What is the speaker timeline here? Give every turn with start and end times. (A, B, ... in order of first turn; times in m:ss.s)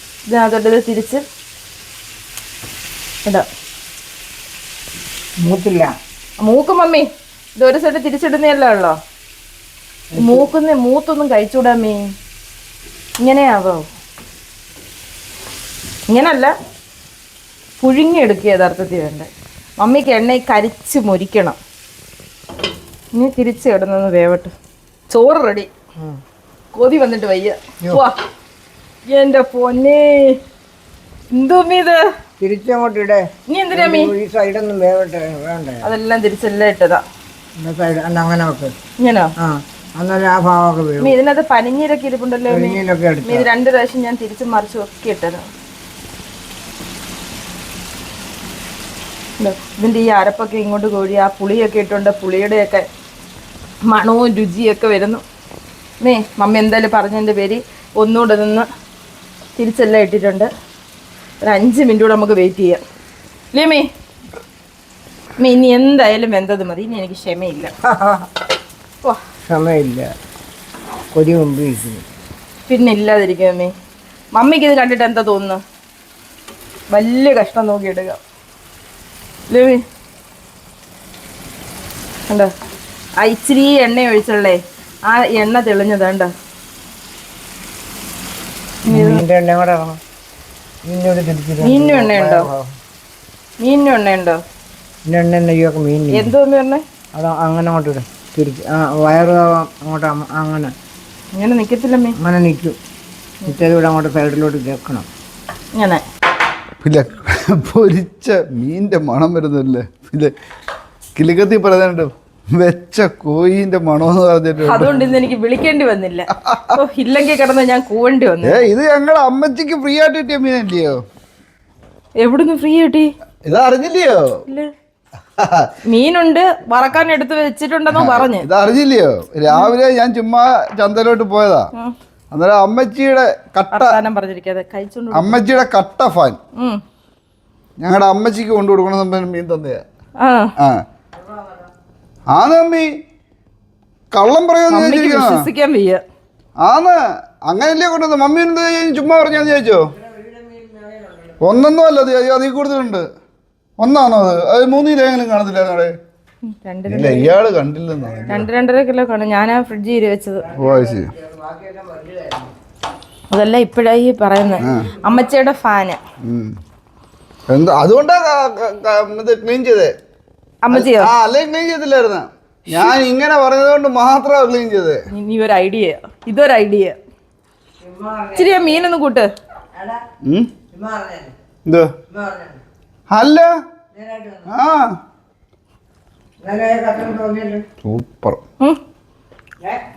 0:00.3-0:01.2 A
0:05.4-0:06.0 B
0:06.4-0:09.0 A
0:10.1-0:10.5 B
0:10.2-0:12.0 A
0:13.2-0:13.8 A
0:16.1-0:16.5 A
0:17.8-0:19.3 A
0:19.8-0:21.6 A
0:23.1-0:24.5 A
0:25.1-0:25.7 A
0:26.7-0:28.2 A
0:29.1-0:30.4 A
0:31.3-0:32.0 A
0:32.4-0:35.9 B
0:33.5-0:34.1 A
0:35.8-0:37.0 A
0:37.6-0:38.7 B
0:39.0-0:39.3 A
0:39.4-0:41.2 B
0:41.0-0:45.4 A
0:42.5-0:43.5 B
0:49.4-0:52.8 A
0:53.9-0:55.2 A
0:56.0-0:58.7 A
0:59.6-1:00.5 A
1:01.4-1:02.8 A
1:03.5-1:03.8 A
1:05.4-1:07.7 A
1:07.8-1:08.3 B
1:09.5-1:10.1 B
1:11.1-1:12.0 B
1:12.7-1:13.7 A
1:14.3-1:15.6 A
1:16.9-1:18.2 A
1:19.5-1:19.8 A
1:23.2-1:26.3 A
1:28.8-1:29.2 A
1:28.9-1:30.0 B
1:30.9-1:32.7 B
1:31.6-1:32.5 A
1:33.6-1:34.4 A
1:35.0-1:36.3 B
1:36.1-1:36.8 A
1:37.1-1:40.7 B
1:41.4-1:42.1 A
1:42.2-1:42.8 B
1:43.4-1:45.1 B
1:45.7-1:46.0 A
1:46.8-1:50.3 C
1:51.2-1:55.0 C
1:54.6-1:58.6 A
1:56.4-1:56.8 C
1:58.4-2:01.0 C
2:02.2-2:03.1 A
2:03.4-2:04.3 C
2:05.4-2:05.7 C
2:05.8-2:08.4 A
2:07.9-2:11.7 C
2:12.3-2:14.0 C
2:13.7-2:15.4 A
2:15.1-2:16.4 C
2:17.8-2:19.8 C
2:20.2-2:20.5 A
2:22.3-2:22.9 C
2:24.1-2:25.4 C
2:24.7-2:26.0 A
2:26.6-2:29.9 C
2:30.0-2:31.4 B
2:31.4-2:33.0 C
2:33.8-2:35.9 C
2:36.5-2:37.3 A
2:36.9-2:38.5 C
2:38.3-2:40.4 A
2:40.5-2:42.5 B
2:40.5-2:41.1 C
2:43.3-2:46.0 A
2:44.6-2:44.9 C
2:44.6-2:45.2 B
2:46.2-2:46.5 C
2:47.5-2:49.9 C
2:50.6-2:51.1 A
2:50.7-2:55.0 C
2:55.1-2:57.0 A
2:57.8-2:58.9 B
2:58.3-2:59.3 A
2:59.7-3:00.0 B
3:00.2-3:00.5 C
3:00.7-3:01.3 B
3:01.6-3:01.9 C
3:02.1-3:02.6 B
3:03.1-3:03.5 C
3:03.9-3:04.5 B
3:04.5-3:05.0 C
3:06.4-3:07.6 B
3:07.8-3:08.4 C